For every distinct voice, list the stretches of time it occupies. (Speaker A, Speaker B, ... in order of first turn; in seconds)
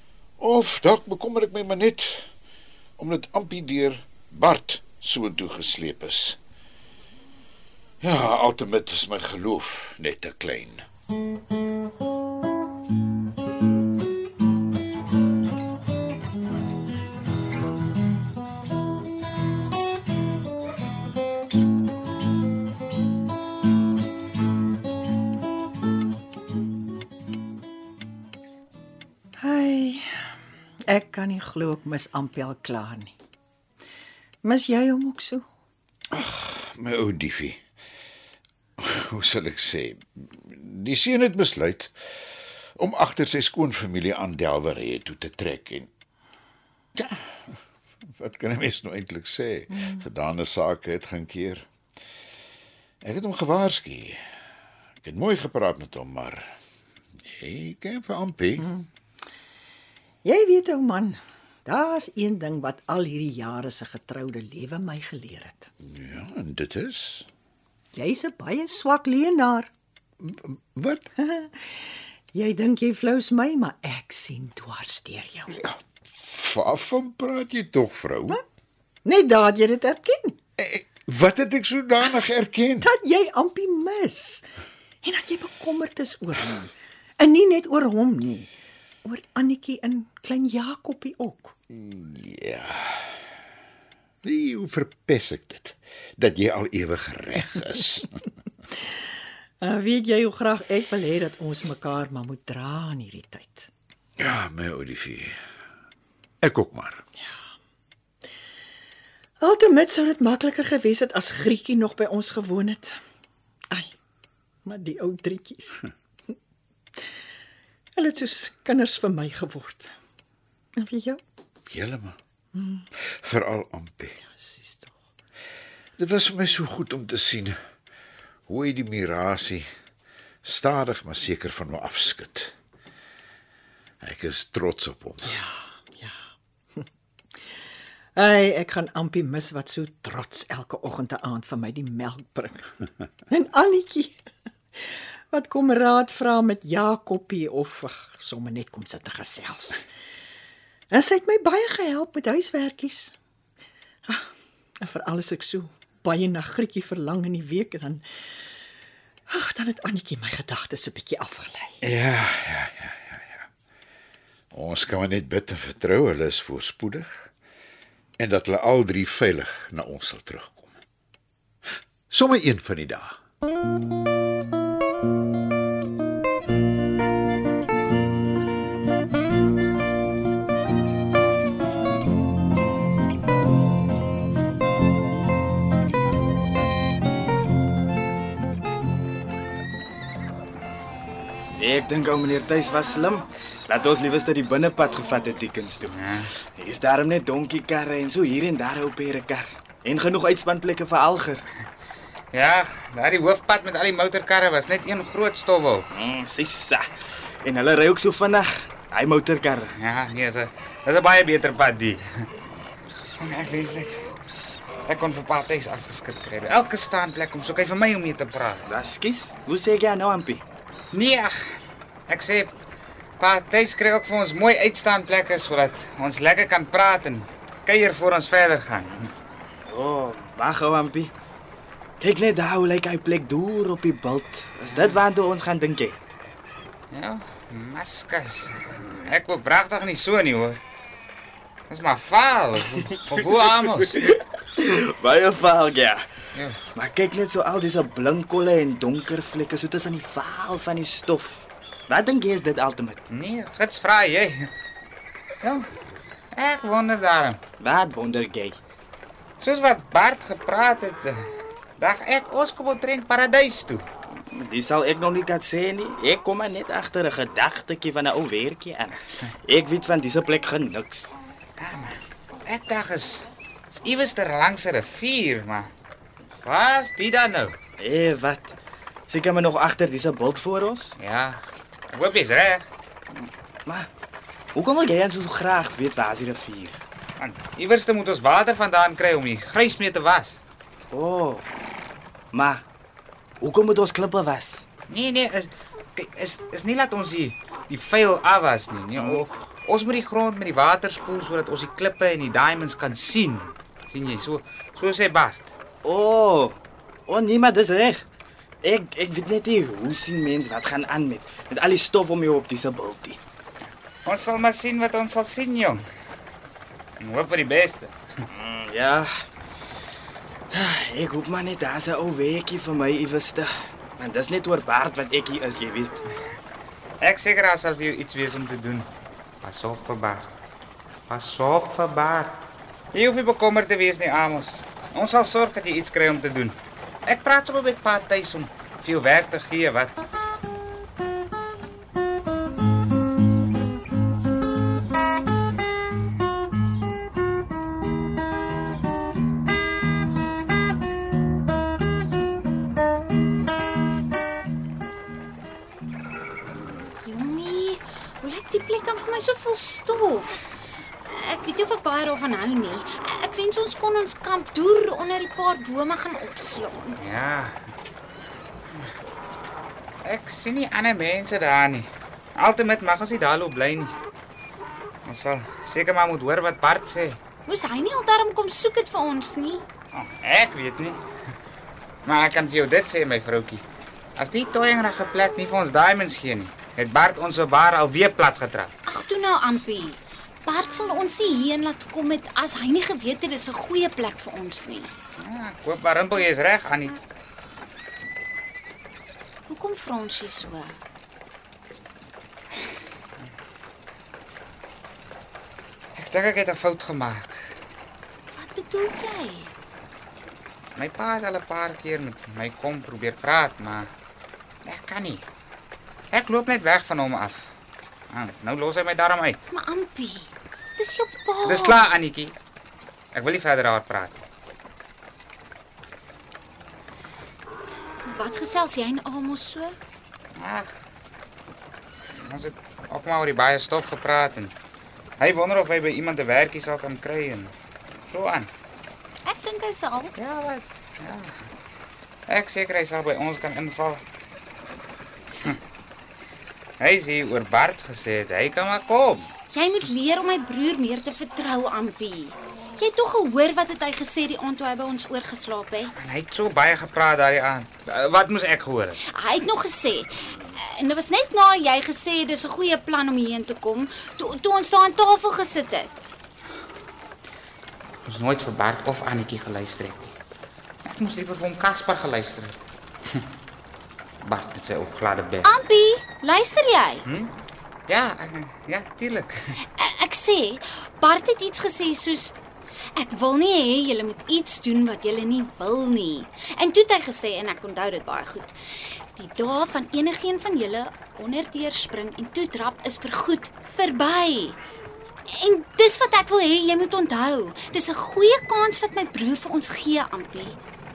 Speaker A: 0.4-2.3, 3.0-6.4, 8.0-10.8, 36.1-37.6, 38.8-41.9, 42.8-45.9, 47.0-47.6, 48.2-51.7, 53.0-54.2, 55.0-56.5, 57.2-58.7, 65.8-67.3, 70.2-71.1, 75.5-78.4, 80.6-82.9, 91.7-93.2, 94.2-98.2, 104.2-105.4, 106.4-107.0, 121.7-122.2, 123.1-124.2, 126.0-127.6, 128.5-129.7, 130.4-132.5, 134.0-135.3, 161.8-163.4, 164.5-167.3, 168.2-170.7, 172.1-173.2
Speaker B: 29.4-30.1, 30.9-33.1, 34.4-35.5, 60.2-65.7, 67.9-69.7, 71.2-71.6, 72.3-75.6, 79.0-80.4, 82.8-84.4, 85.0-88.5, 89.0-91.5, 99.6-103.7, 109.4-113.0, 114.7-115.9, 118.0-119.9, 120.8-121.2, 122.5-122.8, 124.4-124.9, 135.2-136.2, 138.2-142.7, 143.3-144.2, 145.3-149.9, 150.9-153.1, 154.8-158.0, 159.3-161.8
Speaker C: 191.6-201.4, 205.9-206.8, 207.4-209.7, 218.7-220.4, 229.7-231.1, 232.0-236.0, 243.5-246.1, 246.8-253.0, 257.6-258.6, 264.3-271.1, 277.8-278.5, 279.1-280.9, 284.5-286.8, 290.9-291.5, 292.3-292.6, 293.4-294.6, 299.0-299.2, 305.8-308.0, 308.6-313.2, 318.3-319.1, 320.5-326.0
Speaker D: 195.8-196.3, 202.3-205.9, 209.8-212.2, 213.2-214.1, 214.9-218.8, 220.9-222.6, 223.2-229.1, 234.7-235.0, 236.9-240.6, 241.7-244.0, 246.3-246.6, 253.1-254.5, 255.4-255.7, 256.3-257.4, 259.4-263.9, 271.6-275.7, 276.4-277.6, 281.0-282.7, 287.2-290.4, 294.9-305.5, 314.1-315.8, 317.0-317.9, 327.0-328.9, 329.4-330.3, 331.1-339.9, 367.0-367.6, 370.1-373.9, 375.1-377.2, 379.9-381.0, 382.1-383.6, 384.2-388.7, 395.2-397.0, 406.0-407.6, 410.8-413.9, 414.7-415.2, 416.1-417.5, 418.1-419.4, 421.4-422.4, 423.1-424.2, 430.4-430.8, 432.2-434.5, 435.2-437.5, 438.1-438.5, 440.1-441.4, 442.3-444.0, 446.8-449.3, 455.9-459.0, 468.0-470.1, 470.9-472.6, 474.2-475.5, 477.0-477.3, 477.9-479.5
Speaker E: 357.0-360.4, 361.1-367.0, 377.5-379.7, 388.9-394.9, 399.5-400.8, 408.3-409.5, 419.5-421.8, 428.1-429.8, 439.3-440.1, 449.5-456.0, 459.1-466.1, 475.4-477.1, 479.8-482.3, 483.0-488.6, 489.1-494.6, 495.3-500.6